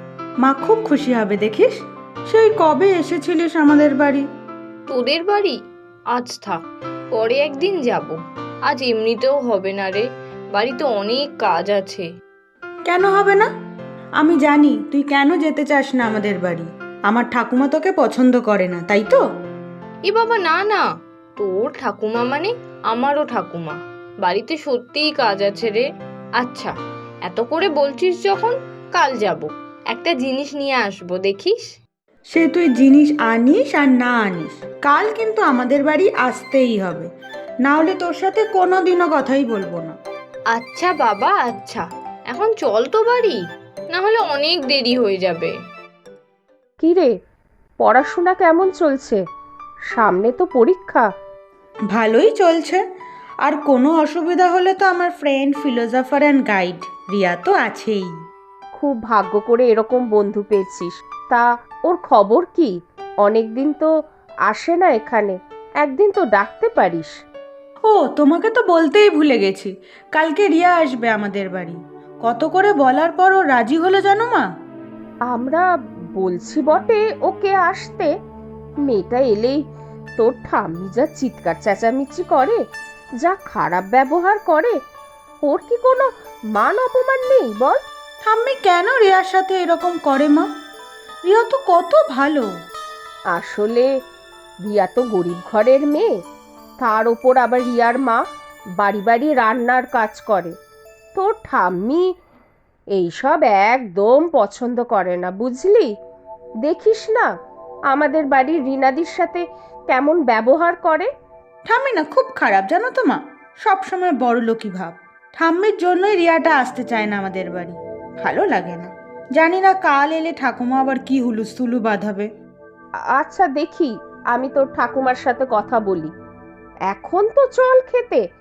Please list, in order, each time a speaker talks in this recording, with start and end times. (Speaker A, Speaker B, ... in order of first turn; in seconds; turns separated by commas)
Speaker A: 0.4-4.3, Speaker B: 4.9-5.6, Speaker B: 6.1-6.6, Speaker B: 7.1-12.1, Speaker A: 12.9-13.5, Speaker A: 14.2-19.2, Speaker B: 20.1-20.9, Speaker B: 21.4-25.9, Speaker B: 26.4-26.8, Speaker B: 27.3-31.6, Speaker A: 32.3-37.1, Speaker A: 37.6-40.0, Speaker B: 40.5-43.4, Speaker B: 43.9-45.5, Speaker C: 46.8-47.1, Speaker C: 47.8-49.2, Speaker C: 49.9-51.1, Speaker A: 51.9-52.8, Speaker A: 53.4-58.1, Speaker C: 58.8-63.9, Speaker C: 64.5-67.2, Speaker A: 67.9-74.5, Speaker C: 75.3-78.1, Speaker C: 78.8-79.6, Speaker C: 80.2-82.6, Speaker C: 83.2-84.8, Speaker C: 85.4-87.8, Speaker A: 88.2-90.5, Speaker A: 91.3-92.5, Speaker C: 93.3-93.9, Speaker C: 94.6-96.1, Speaker C: 96.8-98.2, Speaker C: 98.8-100.5, Speaker C: 101.2-102.1, Speaker C: 103.0-105.9, Speaker C: 106.7-107.3, Speaker C: 107.9-111.1, Speaker A: 111.7-122.3, Speaker C: 123.2-126.1, Speaker C: 126.9-128.3